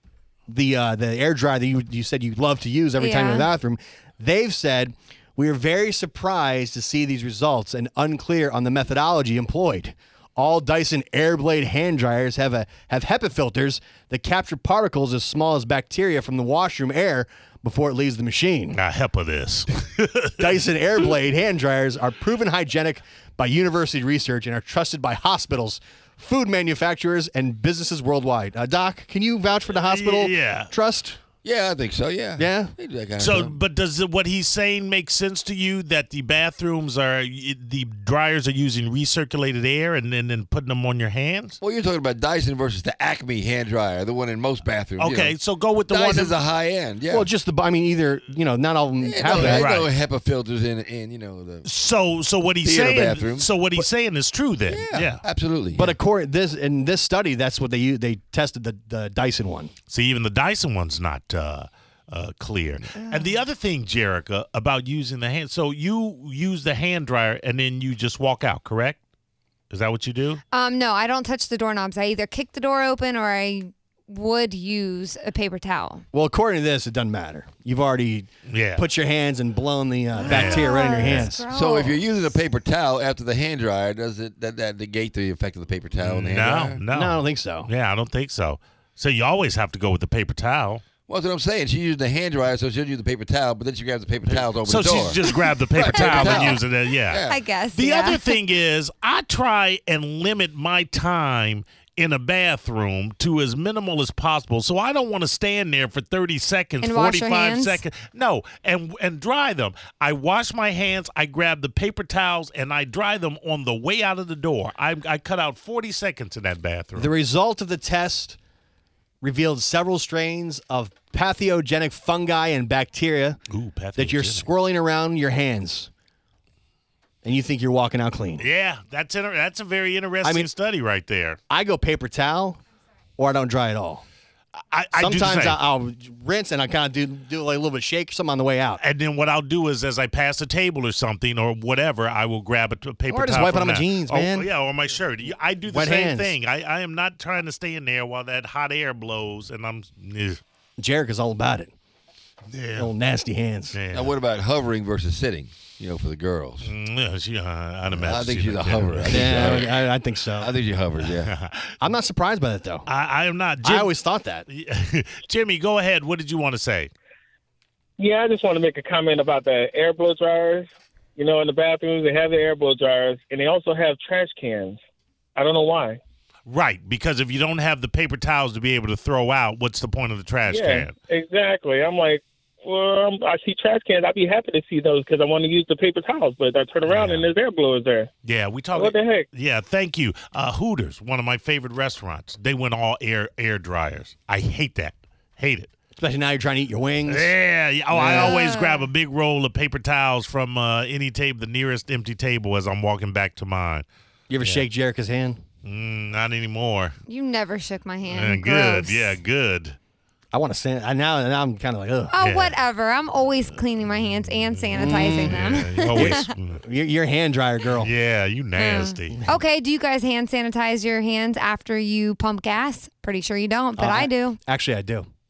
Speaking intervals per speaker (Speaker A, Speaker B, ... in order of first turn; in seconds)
Speaker A: 0.5-18.8, 20.4-31.2, 32.4-32.7, 47.1-49.6, 55.7-59.7, 76.1-81.5, 86.9-87.7, 117.0-118.4, 119.2-123.4, 124.0-125.9, 127.2-128.4, 130.2-130.5, 131.5-132.6, 133.2-134.0, 134.9-138.8, 143.1-144.5, 145.7-146.3, 150.8-151.7, 152.8-153.8, 159.1-160.5, 161.8-162.9, 163.6-164.5, 196.0-197.3, 197.9-198.4, 204.3-205.4, 210.3-212.2, 214.7-217.9, 223.8-225.1
Speaker B: 3.0-3.5, 70.5-76.0, 80.2-82.1, 95.8-96.6, 97.3-98.2, 106.8-107.8, 198.2-198.9, 207.1-209.2, 212.1-216.3, 218.6-224.4
Speaker C: 18.7-20.5, 29.8-30.7, 33.2-41.6, 45.0-46.4, 49.2-49.9, 51.6-55.2, 59.9-69.0, 69.7-70.4, 78.5-78.8, 80.3-81.2, 86.0-90.8, 94.3-117.1, 123.5-124.5, 128.4-131.4, 134.7-135.6, 138.8-150.4, 152.5-152.9, 153.7-154.2, 156.6-159.7, 161.0-161.9, 162.9-164.0, 164.5-166.9, 176.5-180.9, 186.8-187.3, 188.2-195.7, 197.1-203.9, 204.4-204.7, 205.6-207.0, 208.1-209.8, 212.2-212.6, 214.5-216.6, 217.8-219.3
Speaker D: 31.4-33.5, 41.6-45.4, 45.9-47.3, 49.0-51.7, 52.6-53.5, 54.7-56.0, 81.5-86.8, 91.1-95.2, 95.8-97.4, 153.9-156.7, 157.9-161.3
Speaker E: 168.0-174.8, 175.3-176.0, 180.5-188.1, 188.7-189.3